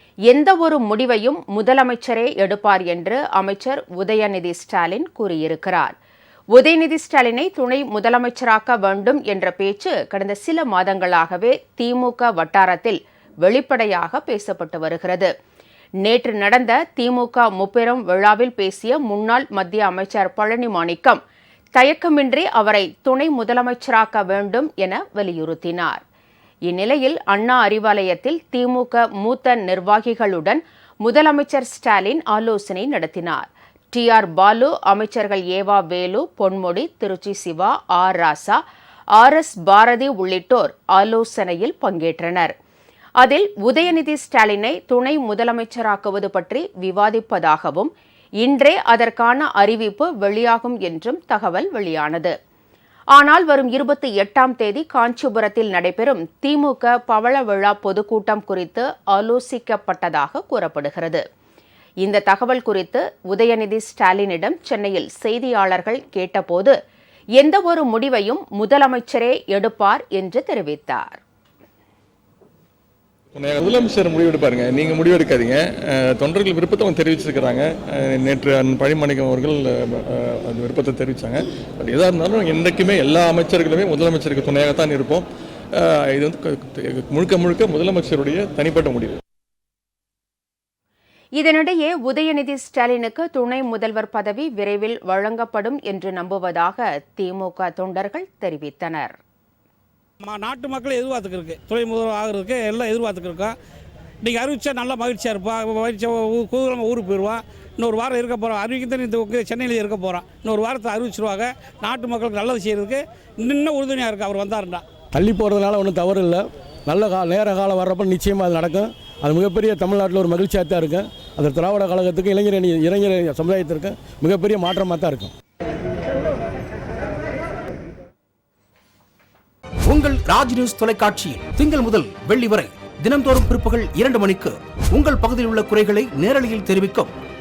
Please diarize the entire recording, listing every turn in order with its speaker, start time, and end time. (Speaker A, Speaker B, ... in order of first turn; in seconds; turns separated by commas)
Speaker A: 0.3-5.9, Speaker A: 6.5-15.3, Speaker A: 16.0-21.2, Speaker A: 21.7-26.0, Speaker A: 26.7-38.6, Speaker A: 39.2-42.5, Speaker A: 43.2-52.3, Speaker A: 53.1-61.2, Speaker A: 62.0-66.7, Speaker A: 67.4-71.2, Speaker B: 73.3-85.2, Speaker B: 85.8-89.2, Speaker A: 91.4-99.2, Speaker C: 100.2-103.5, Speaker C: 104.2-114.8, Speaker D: 115.1-125.3, Speaker E: 129.9-137.1